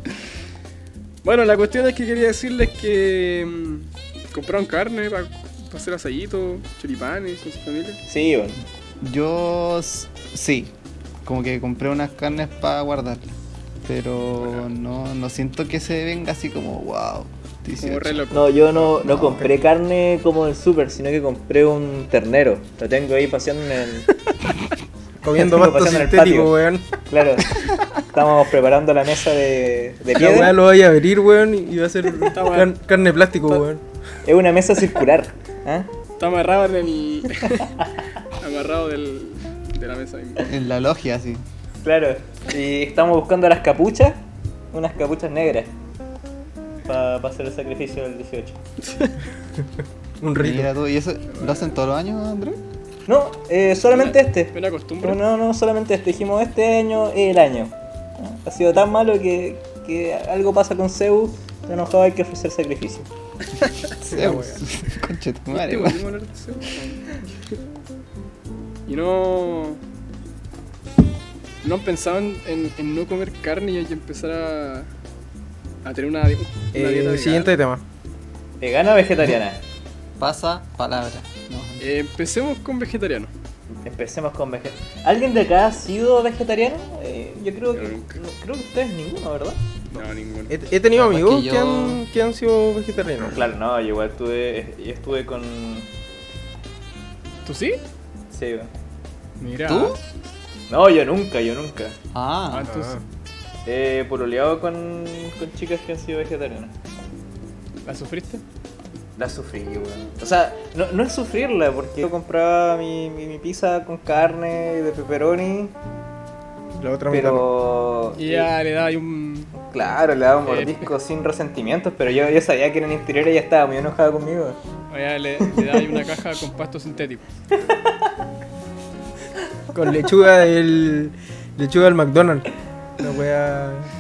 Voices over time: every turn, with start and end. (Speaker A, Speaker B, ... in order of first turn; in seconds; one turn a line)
Speaker A: 1.2-8.0
Speaker B: 8.1-8.6
Speaker C: 9.0-18.3
Speaker A: 14.4-14.7
Speaker A: 17.8-18.5
Speaker B: 18.3-24.1
Speaker C: 18.9-19.6
Speaker D: 25.2-26.9
Speaker B: 25.4-26.5
Speaker B: 27.0-30.6
Speaker D: 30.1-33.8
Speaker A: 32.3-32.7
Speaker B: 34.2-35.9
Speaker A: 36.2-37.8
Speaker A: 38.4-40.5
Speaker C: 40.5-41.4
Speaker B: 41.8-44.2
Speaker B: 44.7-45.7
Speaker B: 46.9-48.6
Speaker A: 48.9-49.1
Speaker D: 50.2-50.7
Speaker C: 50.4-52.6
Speaker A: 51.3-51.8
Speaker B: 53.1-63.1
Speaker A: 53.9-55.2
Speaker C: 63.8-66.0
Speaker D: 64.1-64.6
Speaker A: 64.2-64.4
Speaker A: 65.5-67.2
Speaker A: 68.9-69.8
Speaker A: 71.6-74.9
Speaker A: 75.8-77.5
Speaker D: 76.7-77.8
Speaker B: 78.6-79.6
Speaker C: 80.2-81.9
Speaker A: 81.8-83.3
Speaker B: 83.8-89.6
Speaker A: 87.8-88.2
Speaker A: 89.9-90.7
Speaker D: 90.5-93.4
Speaker C: 90.9-92.0
Speaker B: 93.2-95.9
Speaker A: 97.5-97.8
Speaker B: 98.3-98.7
Speaker A: 99.4-100.0
Speaker C: 99.7-100.0
Speaker B: 100.7-102.0
Speaker C: 102.1-102.9
Speaker A: 102.5-103.0
Speaker D: 102.7-103.0
Speaker B: 103.7-106.7
Speaker A: 107.8-108.4
Speaker B: 109.2-115.8
Speaker D: 116.8-117.5
Speaker B: 117.1-118.5
Speaker A: 118.2-119.5
Speaker B: 119.6-124.6
Speaker A: 120.5-120.9
Speaker A: 124.9-127.2
Speaker B: 125.5-125.9
Speaker D: 129.7-132.5
Speaker D: 133.0-133.9